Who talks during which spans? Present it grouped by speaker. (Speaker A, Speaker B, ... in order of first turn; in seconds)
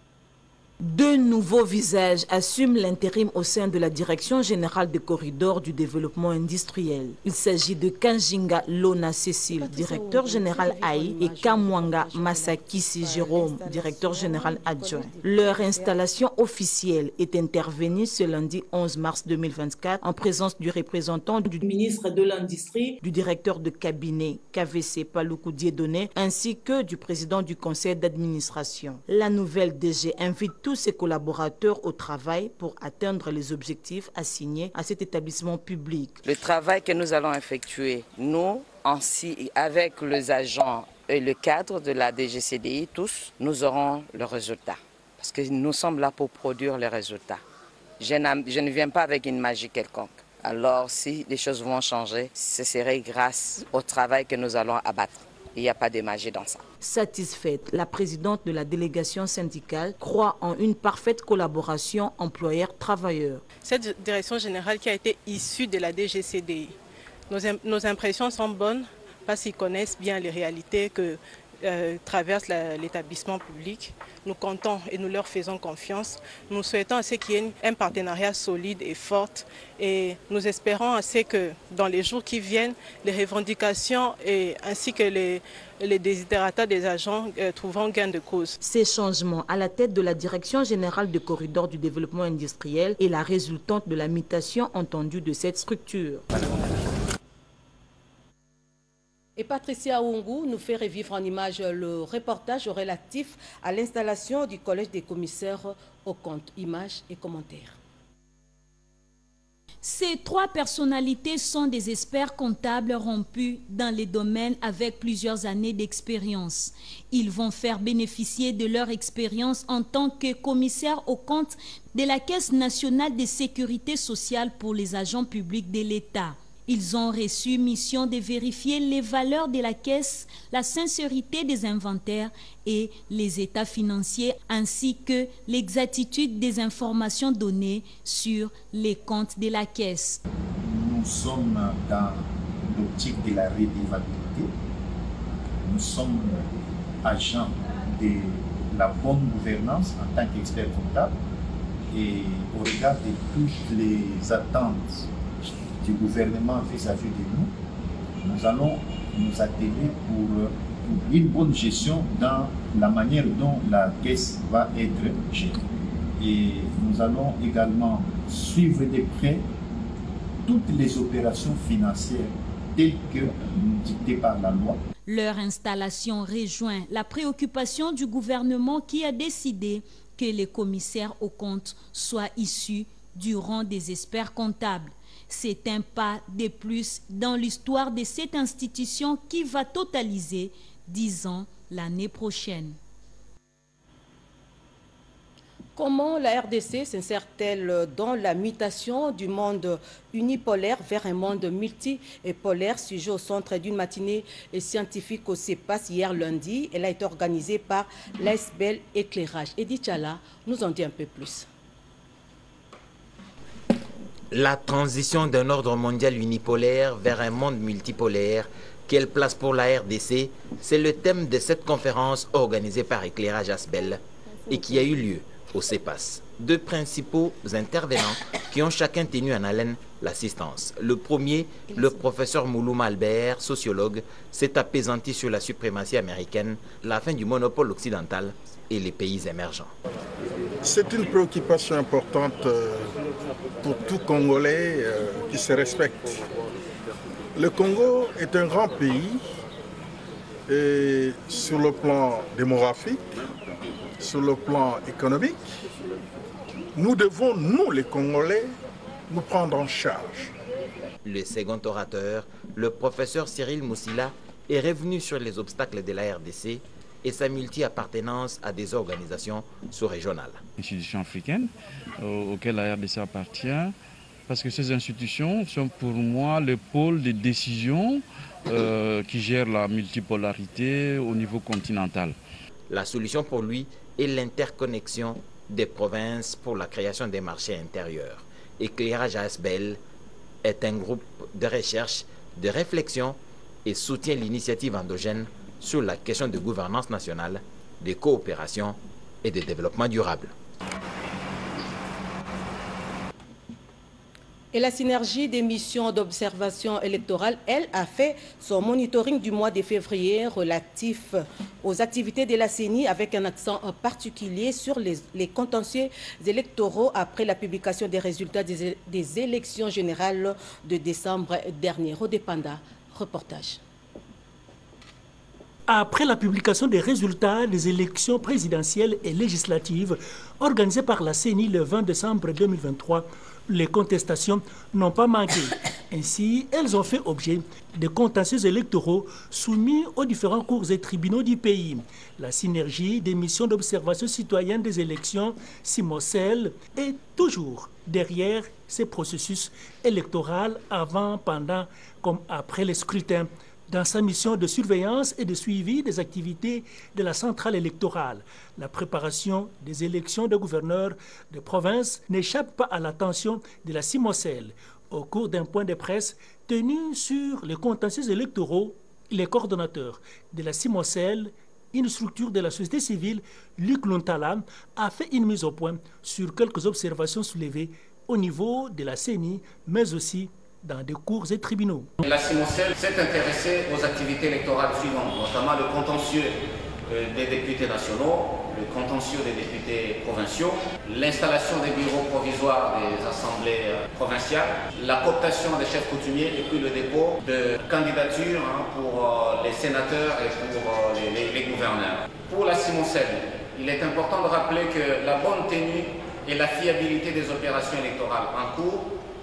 Speaker A: 0.8-21.6, 23.0-36.2, 56.8-63.4, 88.6-96.3
Speaker B: 9.5-15.9, 99.4-107.8, 195.8-211.4, 304.5-323.6
Speaker C: 36.2-47.4, 48.0-56.6
Speaker D: 63.6-66.8, 67.3-88.5
Speaker E: 109.8-140.2, 175.1-192.8
Speaker F: 140.6-144.5, 145.6-146.5, 147.0-151.1, 151.9-155.1, 155.8-157.5, 158.2-165.6, 166.2-169.4, 170.4-174.8
Speaker G: 214.3-239.7, 261.0-270.4, 282.7-289.8, 290.4-300.3
Speaker H: 240.6-242.9, 243.6-246.2, 247.3-249.2, 250.5-253.2, 254.0-255.4, 256.7-258.6, 259.1-260.3
Speaker I: 270.6-273.7, 274.3-282.1
Speaker J: 325.7-381.9
Speaker K: 382.0-408.9